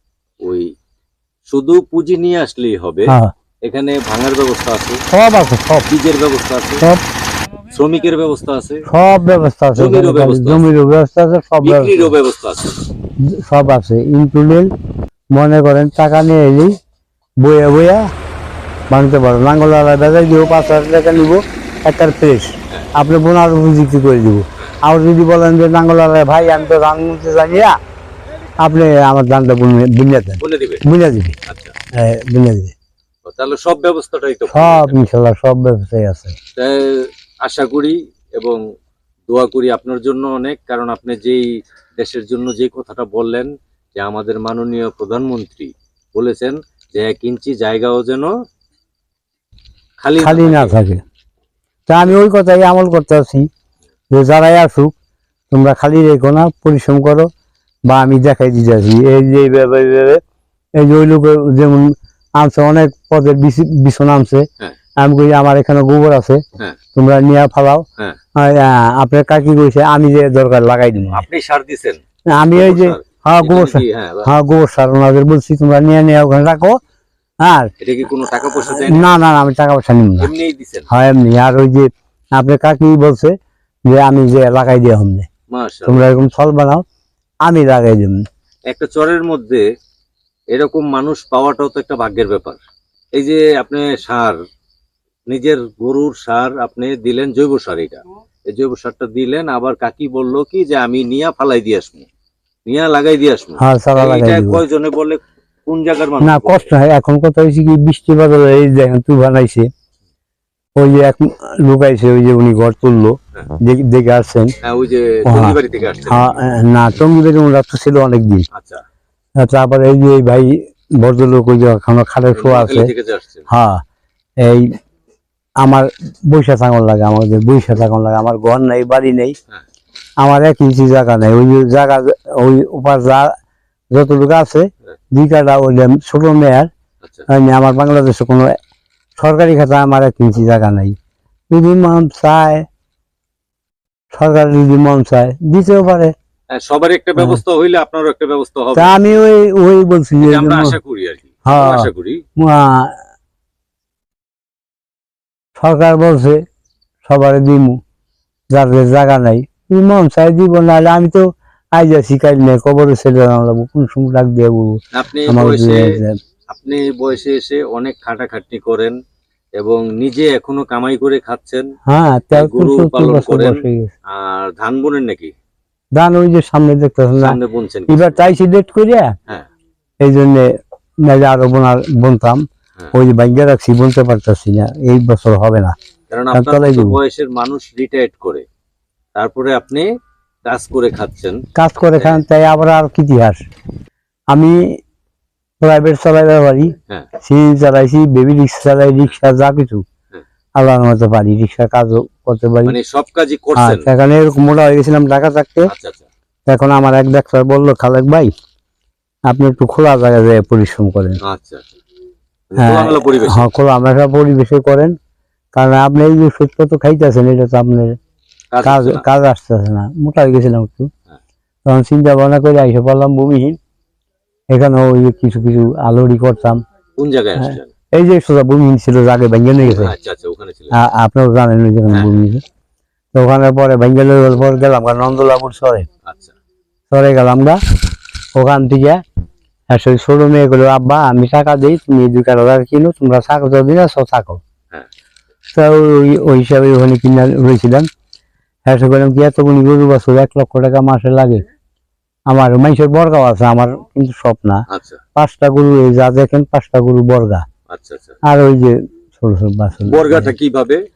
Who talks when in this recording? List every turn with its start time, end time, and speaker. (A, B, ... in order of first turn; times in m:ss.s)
0:00.4-0:00.7 A
0:01.5-0:05.0 A
0:05.1-0:05.9 B
0:05.9-0:06.9 A
0:07.7-0:08.9 A
0:08.9-0:12.1 B
0:09.7-0:10.7 A
0:11.6-0:12.7 A
0:13.3-0:14.7 B
0:15.3-0:16.7 B
0:17.4-0:18.0 B
0:18.9-0:27.8 B
0:28.6-0:31.4 B
0:30.4-0:30.8 A
0:31.5-0:31.8 A
0:31.9-0:32.7 B
0:33.3-0:35.0 A
0:34.5-0:36.4 B
0:36.6-0:38.6 A
0:39.3-0:48.3 A
0:50.0-0:50.8 A
0:50.2-0:51.0 B
0:51.9-0:53.5 B
0:54.1-0:55.0 B
0:55.5-0:57.3 B
0:57.9-1:00.2 B
1:00.8-1:04.5 B
1:05.0-1:06.4 B
1:07.0-1:07.8 B
1:08.4-1:11.3 B
1:11.1-1:14.3 A
1:12.3-1:16.8 B
1:17.4-1:17.7 B
1:17.8-1:19.1 A
1:18.4-1:20.3 B
1:20.2-1:20.9 A
1:20.9-1:23.3 B
1:23.9-1:25.3 B
1:25.5-1:26.1 A
1:25.9-1:26.8 B
1:27.4-1:28.2 B
1:28.7-1:29.6 A
1:30.5-1:32.6 A
1:33.2-1:34.4 A
1:35.3-1:42.1 A
1:42.7-1:46.7 A
1:43.6-1:44.6 B
1:46.2-1:49.7 B
1:50.8-1:54.5 B
1:54.6-1:56.4 A
1:55.3-1:58.5 B
1:58.5-1:58.8 A
1:59.4-2:02.9 B
2:02.3-2:03.5 A
2:03.5-2:03.8 B
2:04.4-2:04.7 B
2:05.6-2:09.4 B
2:10.2-2:13.3 B
2:13.9-2:16.7 B
2:17.3-2:18.5 B
2:19.2-2:21.0 B
2:21.5-2:22.7 B
2:24.1-2:26.1 B
2:26.5-2:29.0 A
2:28.8-2:30.8 B
2:30.2-2:32.2 A
2:31.5-2:33.0 B
2:35.6-2:36.4 B
2:37.1-2:37.8 B
2:38.5-2:46.2 B
2:44.9-2:45.9 A
2:46.5-2:49.0 A
2:49.6-2:51.7 A
2:51.9-2:53.9 B
2:52.3-2:55.3 A
2:56.0-2:57.4 B
2:57.2-2:58.2 A
2:57.9-2:59.1 B
3:00.0-3:00.5 B
3:01.1-3:02.4 B
3:02.9-3:05.7 B
3:06.1-3:08.4 A
3:06.3-3:07.0 B
3:09.2-3:09.9 A
3:10.4-3:11.4 A
3:11.6-3:13.4 B
3:14.3-3:14.8 B
3:15.6-3:19.8 B
3:20.6-3:22.8 B
3:22.7-3:23.9 A
3:23.6-3:25.7 B
3:25.7-3:26.1 A
3:26.5-3:28.3 B
3:29.3-3:31.2 B
3:31.2-3:31.7 A
3:32.5-3:33.5 A
3:32.6-3:34.9 B
3:35.6-3:38.0 B
3:38.5-3:39.0 A
3:38.6-3:40.9 B
3:41.7-3:43.6 B
3:44.5-3:46.6 B
3:47.0-3:47.7 A
3:47.4-3:49.9 B
3:49.6-3:50.8 A
3:50.8-3:52.4 B
3:53.1-3:55.9 B
3:56.1-3:56.3 A
3:56.9-3:57.6 B
3:58.4-3:59.0 B
3:59.7-4:04.4 B
4:05.5-4:07.9 B
4:08.7-4:11.4 B
4:12.3-4:14.6 B
4:14.7-4:15.0 A
4:15.2-4:17.4 B
4:17.7-4:18.2 A
4:18.3-4:20.3 B
4:19.9-4:20.8 A